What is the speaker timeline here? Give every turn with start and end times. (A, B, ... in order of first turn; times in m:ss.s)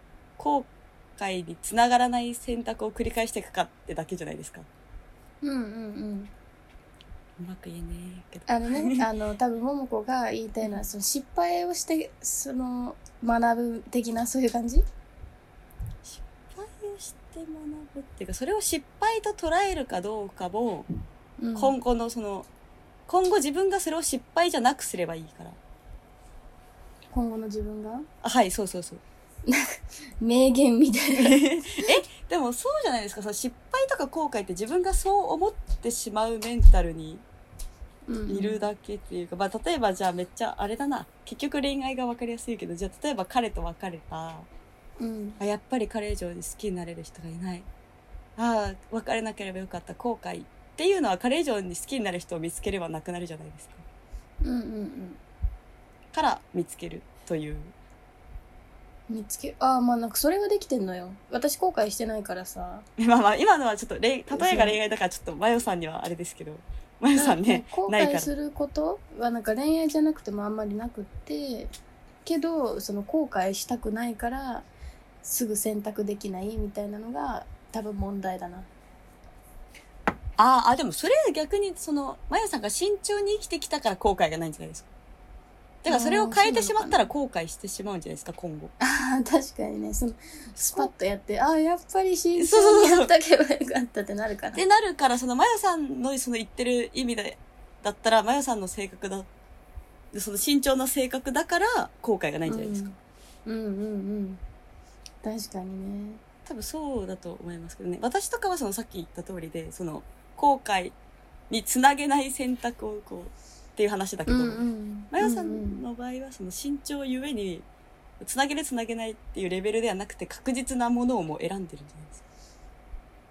0:00.4-0:04.7 A
0:05.4-0:06.3 B
0:07.4-0:09.0 A
0:08.5-0:14.8 B
0:16.0-0:20.9 A
0:21.4-0:21.8 B
0:21.5-0:22.5 A
0:23.1-0:25.6 A
0:27.1-0:28.1 B
0:28.2-0:29.0 A
0:29.4-0:31.4 B
0:31.2-0:37.2 A
0:38.1-0:38.6 B
0:38.3-0:44.5 A
0:45.0-0:45.4 B
0:45.4-0:47.7 A
0:48.4-0:53.8 A
0:54.4-0:55.2 B
0:56.1-0:57.7 A
0:59.1-1:02.8 B
1:03.0-1:08.3 A
1:04.3-1:04.8 B
1:07.1-1:11.7 B
1:12.2-1:14.7 B
1:15.2-1:18.7 B
1:20.4-1:24.9 A
1:25.8-1:28.7 A
1:25.9-1:27.1 B
1:28.8-1:34.6 B
1:32.4-1:33.1 A
1:34.5-1:39.3 A
1:40.1-1:42.8 A
1:42.4-1:44.4 B
1:45.2-1:46.2 B
1:46.4-1:51.0 A
1:51.5-1:57.6 A
1:54.3-1:55.8 B
1:58.2-2:02.2 A